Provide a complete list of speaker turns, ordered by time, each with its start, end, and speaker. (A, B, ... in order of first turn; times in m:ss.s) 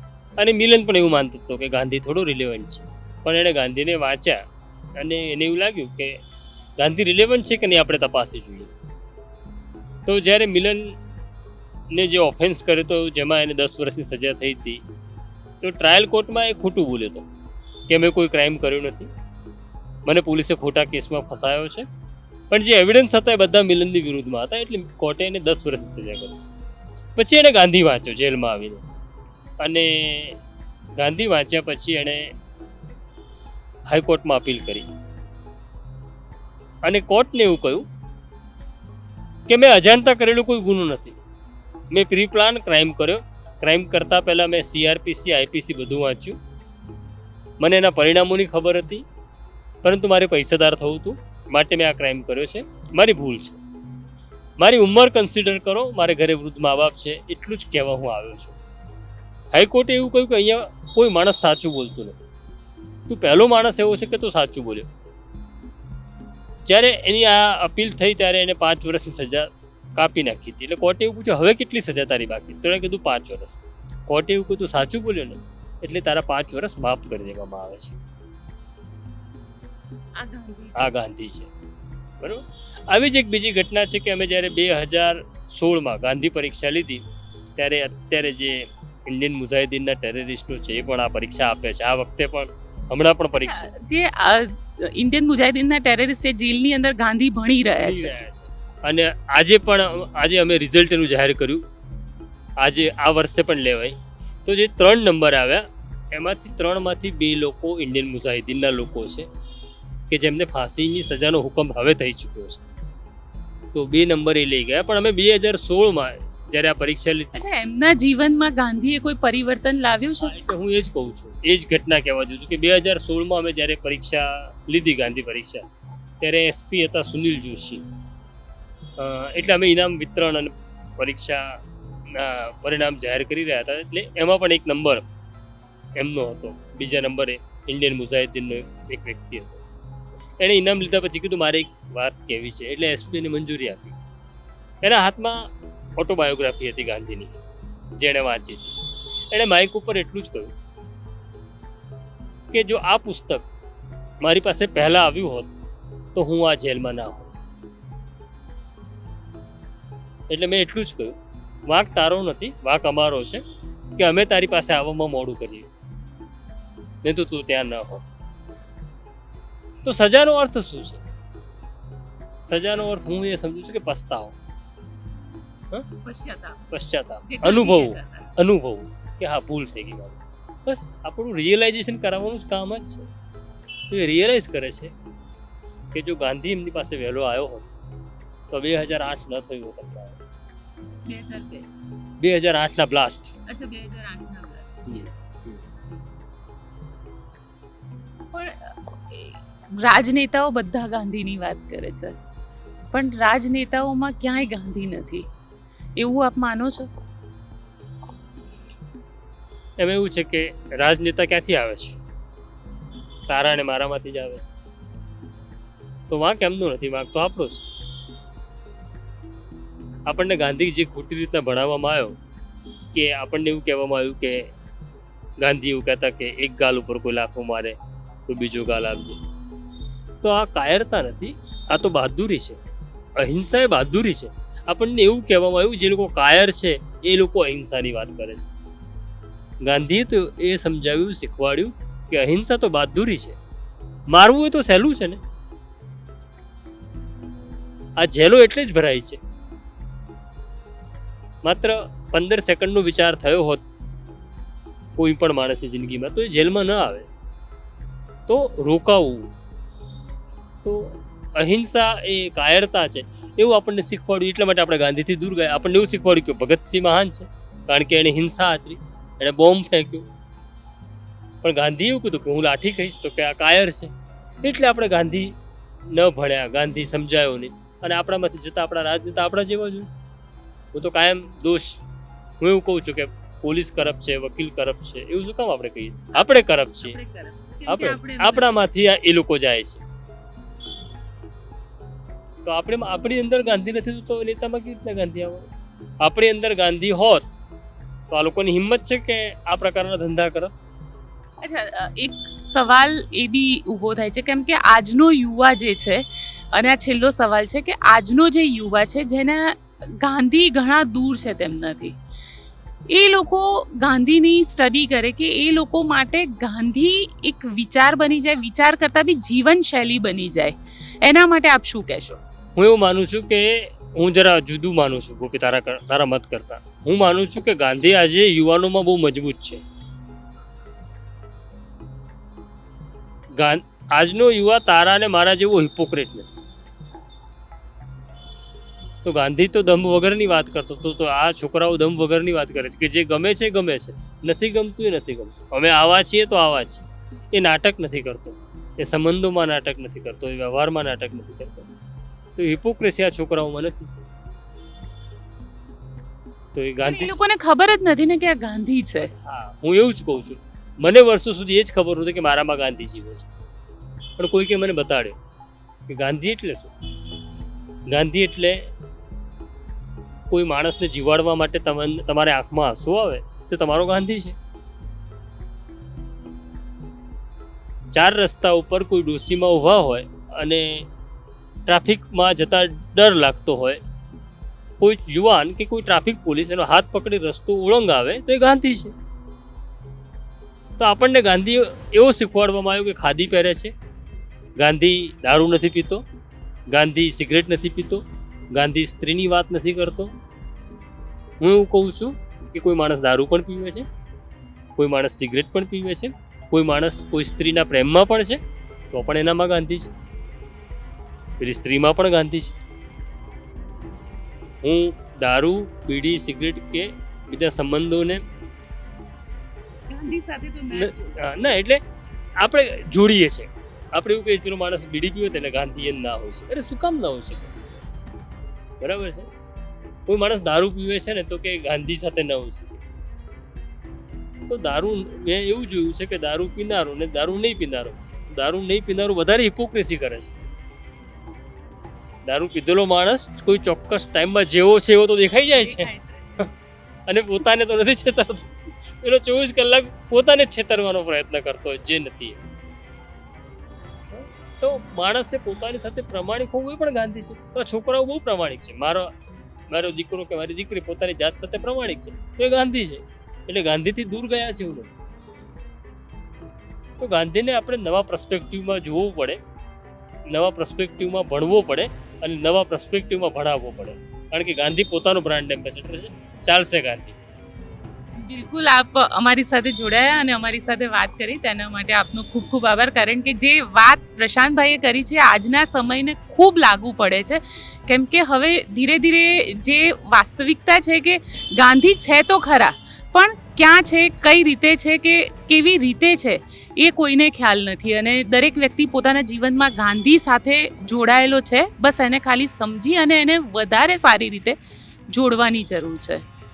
0:00.4-0:04.4 A
0:05.0-0:06.2 A
0:06.8-0:08.7 A
0:10.1-0:11.0 A
0:11.9-0:14.8 A
0:15.6-0:17.3 A
0:17.9-0:19.1 A
0:20.0-0:21.9 A
0:22.5-0:26.4 A
0:27.2-0:28.8 A
0:29.6-0:30.4 A
0:31.0-0:32.3 A
0:33.9-0:34.9 A
0:36.8-0:37.8 A
0:39.5-0:41.2 A
0:41.9-0:46.4 A
0:47.6-0:49.0 A
0:49.8-0:53.6 A
0:54.6-0:58.6 A
0:59.5-1:02.2 A
1:03.1-1:05.0 A
1:06.6-1:18.0 A
1:20.2-1:20.9 B
1:20.8-1:21.5 A
1:22.2-1:27.0 A
1:27.6-1:33.7 A
1:33.4-1:38.1 B
1:37.8-1:41.6 A
1:42.6-1:49.3 A
1:50.1-1:52.6 A
1:53.7-1:57.3 A
1:57.4-2:00.3 B
2:00.2-2:05.7 A
2:06.2-2:07.8 A
2:09.0-2:11.6 A
2:12.1-2:15.0 A
2:16.0-2:19.6 A
2:20.4-2:24.0 A
2:24.8-2:27.4 A
2:27.9-2:28.8 A
2:29.3-2:30.5 A
2:32.5-2:33.5 A
2:34.2-2:35.5 A
2:36.2-2:37.3 A
2:40.3-2:43.4 A
2:44.0-2:45.7 A
2:47.0-2:48.0 A
2:49.8-2:51.0 A
2:52.4-2:54.4 A
2:56.0-2:56.7 B
2:56.7-3:03.1 A
2:57.3-2:58.3 B
3:03.9-3:04.9 A
3:05.9-3:07.7 A
3:08.5-3:10.2 A
3:11.1-3:11.7 B
3:12.2-3:13.4 A
3:13.5-3:15.2 B
3:14.9-3:15.6 A
3:18.3-3:22.2 B
3:22.9-3:25.3 B
3:26.0-3:26.9 B
3:29.8-3:32.0 A
3:33.3-3:34.5 A
3:36.1-3:37.6 A
3:40.1-3:42.2 A
3:42.9-3:44.5 A
3:45.4-3:49.2 A
3:50.2-3:52.6 A
3:53.2-3:58.5 A
3:59.6-4:03.4 A
4:04.1-4:05.2 A
4:08.0-4:09.2 A
4:11.4-4:13.6 A
4:15.0-4:17.1 A
4:18.3-4:19.3 A
4:20.6-4:30.1 A
4:31.4-4:33.9 A
4:34.4-4:35.4 A
4:35.9-4:39.9 A
4:40.7-4:41.8 A
4:42.4-4:47.0 A
4:46.1-4:48.5 B
4:47.7-4:49.8 A
4:52.4-4:55.5 A
4:56.0-4:57.3 A
4:58.1-5:00.5 A
5:01.4-5:12.0 B
5:12.9-5:22.2 B
5:22.6-5:29.6 A
5:33.4-5:36.4 A
5:39.0-5:51.7 A
5:52.4-5:53.9 A
5:56.5-5:57.2 A
5:56.8-5:59.1 B
5:59.0-6:03.3 A
6:04.2-6:05.2 A
6:05.9-6:06.7 A
6:07.9-6:08.7 A
6:10.3-6:14.4 A
6:17.9-6:20.9 A
6:21.7-6:23.8 A
6:24.8-6:28.9 A
6:30.8-6:33.7 A
6:34.6-6:36.0 A
6:36.7-6:40.1 A
6:41.4-6:43.9 A
6:44.8-6:49.9 A
6:51.4-6:52.6 A
6:54.6-6:58.2 A
6:59.9-7:01.4 B
7:00.7-7:01.8 A
7:02.4-7:07.5 A
7:08.8-7:09.3 A
7:10.1-7:12.8 A
7:14.5-7:20.4 A
7:22.2-7:25.9 A
7:25.6-7:26.5 B
7:27.1-7:32.4 A
7:34.1-7:39.1 A
7:39.7-7:44.9 A
7:47.0-7:49.4 A
7:50.3-7:57.2 A
7:58.2-8:24.6 B
8:25.1-8:26.3 B